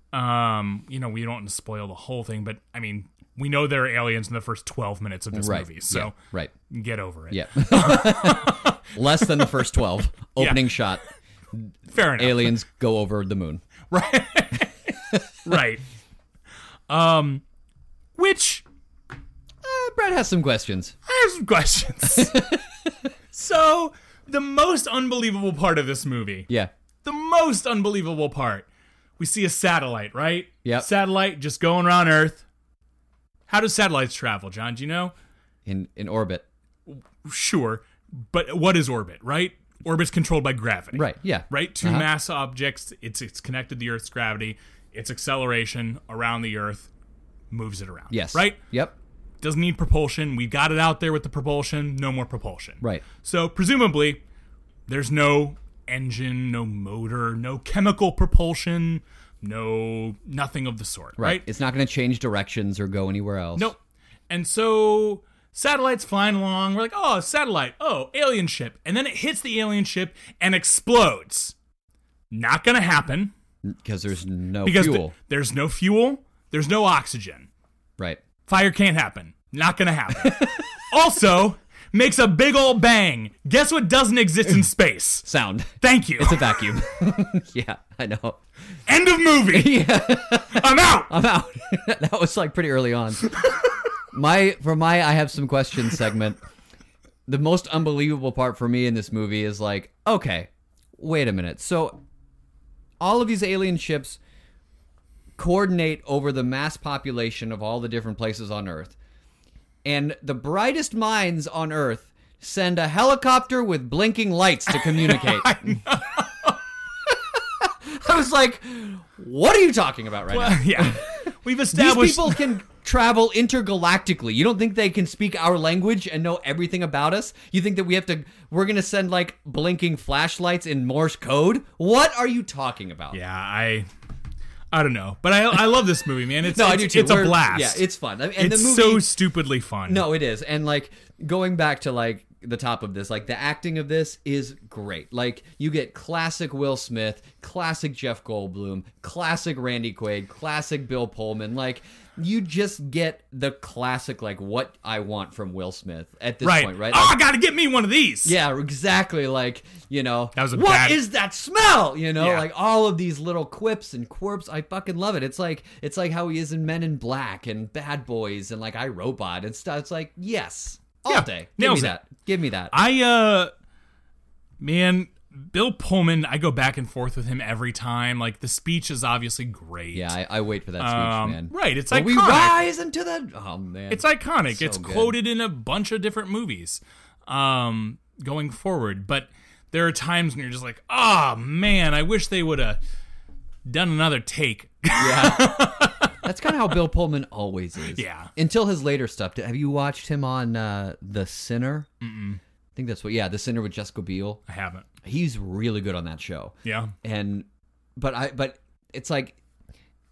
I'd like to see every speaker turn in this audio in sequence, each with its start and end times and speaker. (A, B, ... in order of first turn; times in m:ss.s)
0:00.1-0:06.2 A
0:05.3-0:06.5 B
0:06.7-0:08.8 A
0:07.3-0:13.6 B
0:10.4-0:10.8 A
0:11.9-0:12.5 A
0:13.9-0:14.7 A
0:15.4-0:15.8 A
0:16.9-0:17.4 A
0:18.2-0:18.6 A
0:19.6-0:20.9 B
0:21.1-0:22.4 A
0:22.1-0:22.9 B
0:23.3-0:26.5 A
0:27.0-0:28.7 A
0:29.2-0:32.4 A
0:30.6-0:30.9 B
0:33.5-0:35.1 A
0:35.6-0:36.4 B
0:36.9-0:46.9 A
0:40.9-0:42.1 B
0:47.5-0:48.6 A
0:48.1-0:48.9 B
0:49.4-0:54.2 A
0:54.9-1:01.4 A
1:01.2-1:03.7 B
1:04.3-1:11.5 A
1:12.3-1:13.3 A
1:13.6-1:15.1 B
1:14.6-1:17.5 A
1:18.5-1:25.3 A
1:20.2-1:20.6 B
1:25.2-1:28.4 B
1:25.8-1:26.5 A
1:28.9-1:31.1 A
1:29.4-1:33.4 B
1:34.1-1:36.4 B
1:37.3-1:42.0 B
1:43.0-1:44.2 B
1:45.4-1:48.9 B
1:49.8-1:55.8 B
1:54.7-1:56.6 A
1:57.1-2:13.2 B
2:00.3-2:02.4 A
2:13.1-2:13.9 A
2:14.7-2:20.1 A
2:16.4-2:19.1 B
2:19.8-2:37.2 B
2:36.4-2:38.4 A
2:38.2-2:52.8 B
2:40.3-2:41.0 A
2:42.2-2:42.5 A
2:51.1-2:52.0 A
2:52.7-2:53.5 A
2:54.6-3:00.2 A
2:59.9-3:05.2 B
3:00.8-3:02.6 A
3:03.9-3:12.8 A
3:13.6-3:16.1 A
3:15.0-3:21.9 B
3:17.9-3:18.3 A
3:22.0-3:22.4 A
3:22.8-3:24.4 B
3:24.5-3:24.8 A
3:25.0-3:29.4 B
3:26.6-3:26.9 A